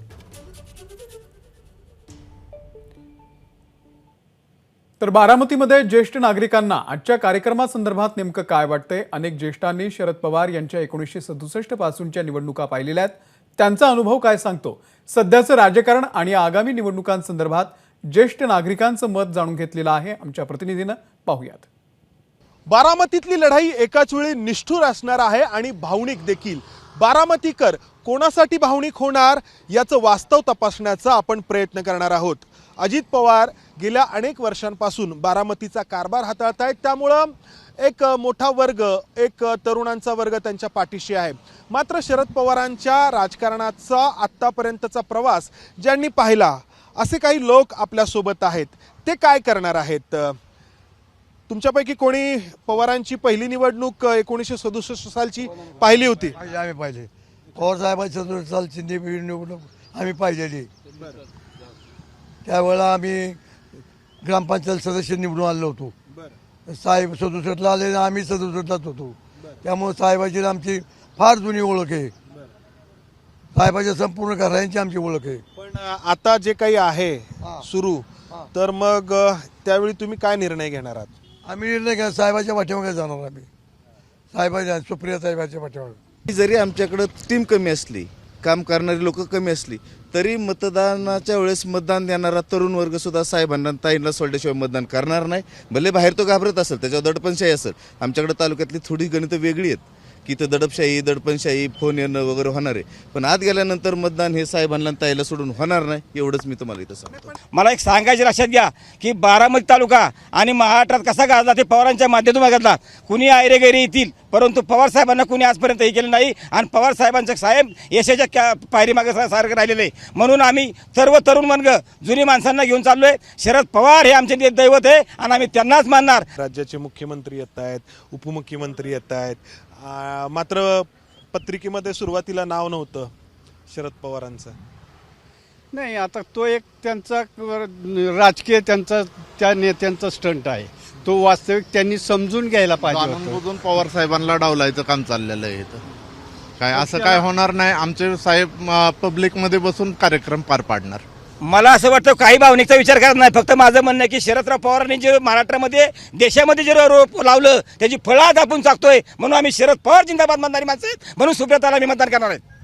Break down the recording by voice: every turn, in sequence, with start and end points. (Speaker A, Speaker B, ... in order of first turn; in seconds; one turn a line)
Speaker A: 5.0-21.7
Speaker B: 22.7-50.4
Speaker B: 51.5-56.4
Speaker C: 56.3-60.7
Speaker C: 62.4-63.4
Speaker C: 64.2-65.9
Speaker C: 66.7-72.1
Speaker C: 73.5-75.4
Speaker B: 75.6-81.1
Speaker C: 81.5-83.5
Speaker C: 84.3-86.0
Speaker D: 86.3-107.3
Speaker E: 107.5-126.2
Speaker B: 126.3-133.1
Speaker B: 133.7-134.6
Speaker F: 135.7-143.8
Speaker G: 142.9-145.8
Speaker G: 146.6-151.0
Speaker F: 146.7-147.3
Speaker E: 151.4-162.4